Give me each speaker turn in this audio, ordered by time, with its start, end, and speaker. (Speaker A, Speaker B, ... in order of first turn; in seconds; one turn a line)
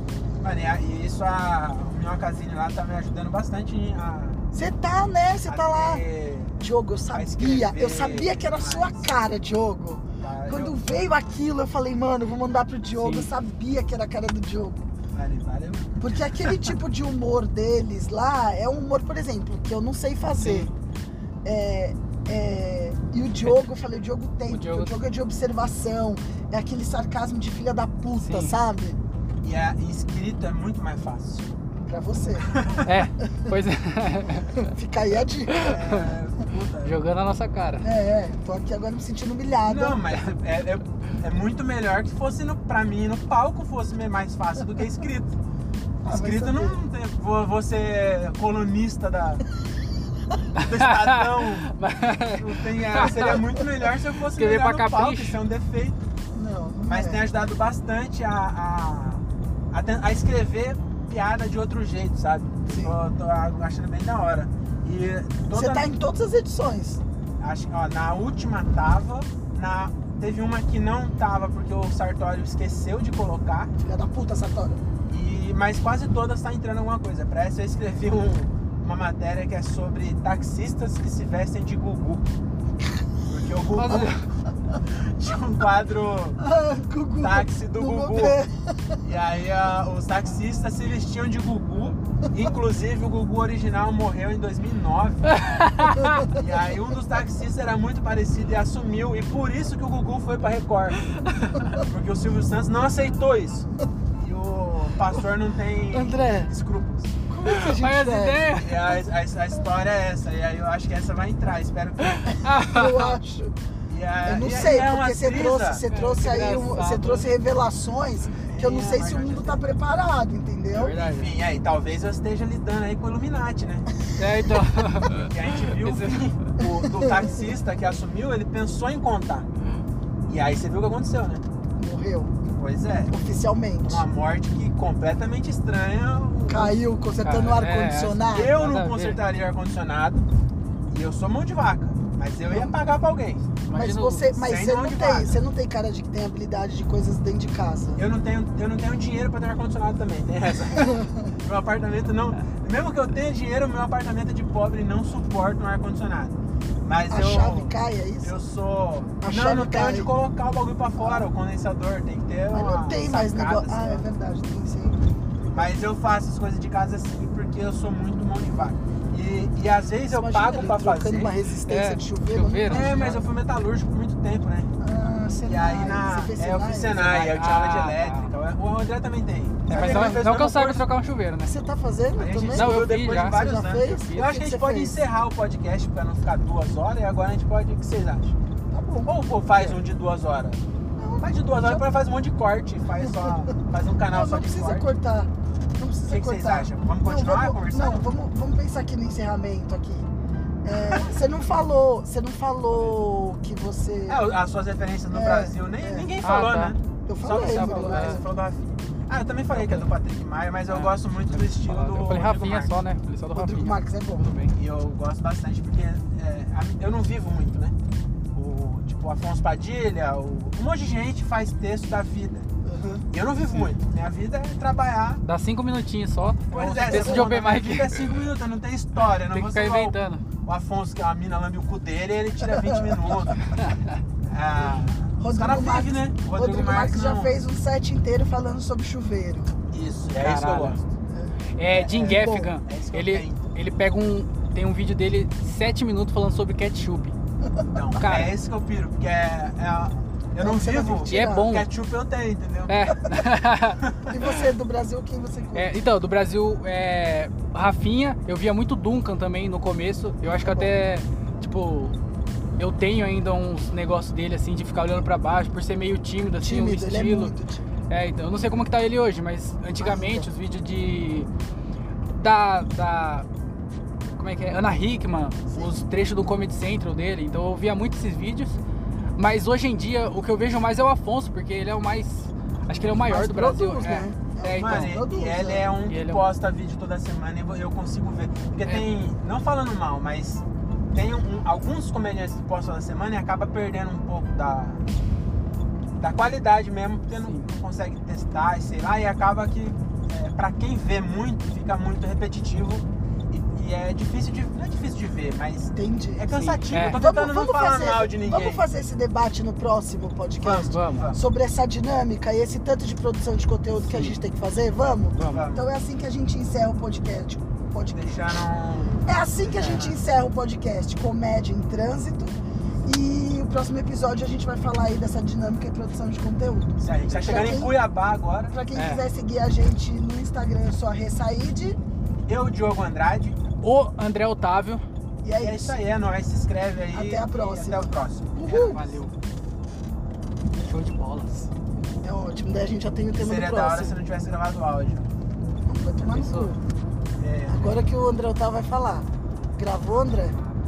Speaker A: 0.4-4.4
Speaker B: 4.5-6.0
Speaker A: 5.5-6.6
Speaker B: 6.6-14.9
Speaker A: 7.1-9.1
Speaker A: 10.2-10.7
Speaker C: 13.0-13.3
Speaker A: 15.1-16.5
Speaker B: 16.0-20.7
Speaker C: 20.4-20.7
Speaker B: 21.4-29.0
Speaker C: 24.5-24.9
Speaker C: 28.2-28.5
Speaker A: 29.4-31.6
Speaker B: 31.9-32.6
Speaker A: 32.4-32.9
Speaker C: 32.8-34.7
Speaker B: 33.2-33.5
Speaker B: 34.5-35.8
Speaker C: 35.5-36.1
Speaker A: 35.6-37.0
Speaker C: 36.8-37.8
Speaker B: 37.8-40.0
Speaker A: 39.6-45.4
Speaker C: 40.1-40.4
Speaker B: 46.0-46.8
Speaker A: 46.0-49.4
Speaker C: 50.5-55.4
Speaker A: 50.6-51.7
Speaker A: 52.3-56.0
Speaker B: 56.3-57.2
Speaker A: 56.9-65.9
Speaker B: 62.7-63.0
Speaker B: 65.5-67.0
Speaker A: 67.4-73.7
Speaker B: 73.8-74.8
Speaker A: 75.1-82.3
Speaker A: 83.3-84.1
Speaker C: 83.7-84.2
Speaker A: 84.8-86.4
Speaker B: 86.4-89.0
Speaker A: 87.2-88.4
Speaker A: 89.0-95.3
Speaker C: 95.3-96.3
Speaker B: 95.9-96.3
Speaker A: 96.3-107.1
Speaker C: 101.2-101.7
Speaker B: 105.9-106.5
Speaker B: 107.3-108.4
Speaker C: 107.5-109.0
Speaker A: 108.5-112.4
Speaker C: 112.0-113.2
Speaker B: 112.4-113.5
Speaker A: 113.9-115.8
Speaker B: 114.2-121.0
Speaker C: 115.9-117.3
Speaker A: 118.4-119.6
Speaker C: 120.7-121.3
Speaker A: 120.9-123.9
Speaker C: 124.2-126.3
Speaker A: 125.0-129.5
Speaker B: 126.8-127.3
Speaker A: 130.2-131.4
Speaker B: 131.8-132.4
Speaker A: 132.5-133.1
Speaker B: 133.1-134.0
Speaker A: 133.8-136.8
Speaker B: 136.5-138.6
Speaker C: 137.2-139.2
Speaker A: 138.3-140.2
Speaker A: 140.9-143.5
Speaker B: 142.5-142.7
Speaker C: 143.6-144.3
Speaker B: 143.7-148.0
Speaker A: 144.3-145.4
Speaker A: 148.0-164.1
Speaker B: 150.8-151.3
Speaker B: 157.1-158.4
Speaker B: 159.2-160.1
Speaker B: 161.0-161.2
Speaker B: 162.5-165.8
Speaker A: 165.5-171.3
Speaker B: 170.1-173.2
Speaker C: 171.7-173.2
Speaker A: 172.7-174.7
Speaker B: 174.8-177.2
Speaker A: 175.4-180.8
Speaker C: 177.0-178.3
Speaker C: 179.7-181.5
Speaker B: 179.7-180.2
Speaker B: 181.4-185.0
Speaker A: 182.2-188.3
Speaker C: 182.5-184.3
Speaker B: 188.7-189.2
Speaker A: 189.1-190.6
Speaker B: 191.0-191.8
Speaker A: 191.2-194.9
Speaker B: 193.0-193.5
Speaker B: 194.1-200.1
Speaker A: 196.0-198.1
Speaker B: 200.6-204.3
Speaker A: 200.7-201.1
Speaker A: 204.1-212.8
Speaker B: 205.1-206.1
Speaker C: 206.2-206.7
Speaker B: 207.1-208.3
Speaker C: 207.3-208.2
Speaker C: 209.5-209.9
Speaker C: 210.7-214.5
Speaker B: 213.3-214.3
Speaker A: 214.5-217.7
Speaker A: 218.3-222.5
Speaker B: 222.6-223.0
Speaker A: 223.1-225.2
Speaker C: 225.2-228.2
Speaker A: 226.5-233.4
Speaker B: 226.6-227.4
Speaker C: 229.3-230.2
Speaker C: 233.6-234.0
Speaker A: 234.2-237.3
Speaker B: 235.2-239.5
Speaker A: 239.7-240.9
Speaker C: 240.2-240.8
Speaker B: 241.1-241.3
Speaker C: 241.6-247.2
Speaker A: 241.6-243.5
Speaker A: 247.7-252.8
Speaker C: 248.0-248.3
Speaker B: 250.4-251.5
Speaker C: 251.1-251.7
Speaker C: 252.7-253.8
Speaker B: 254.0-255.8
Speaker C: 255.5-262.0
Speaker B: 260.4-260.7
Speaker C: 262.6-267.3
Speaker B: 266.4-267.6
Speaker C: 267.9-271.3
Speaker B: 269.8-270.3
Speaker C: 272.1-273.3
Speaker C: 274.2-278.6
Speaker B: 275.5-275.8
Speaker C: 279.1-285.0
Speaker B: 283.0-285.7
Speaker A: 284.6-294.9
Speaker C: 285.9-286.2
Speaker A: 296.0-308.6
Speaker C: 297.1-297.4
Speaker B: 305.7-318.2
Speaker C: 306.3-307.0
Speaker A: 310.4-311.2
Speaker C: 310.5-311.1
Speaker C: 313.8-314.1
Speaker C: 315.1-315.5
Speaker A: 315.2-315.7
Speaker A: 317.9-320.0
Speaker B: 319.0-327.8
Speaker A: 326.8-328.5
Speaker B: 328.5-331.8
Speaker C: 328.7-329.0
Speaker A: 332.3-333.4
Speaker C: 333.6-334.8
Speaker B: 335.2-335.8
Speaker A: 335.4-339.0
Speaker B: 336.9-338.8
Speaker C: 338.4-339.1
Speaker C: 340.6-341.5
Speaker B: 342.0-343.9
Speaker A: 343.2-345.1
Speaker B: 345.6-346.6
Speaker C: 346.0-346.5
Speaker A: 347.2-347.7
Speaker B: 347.5-350.4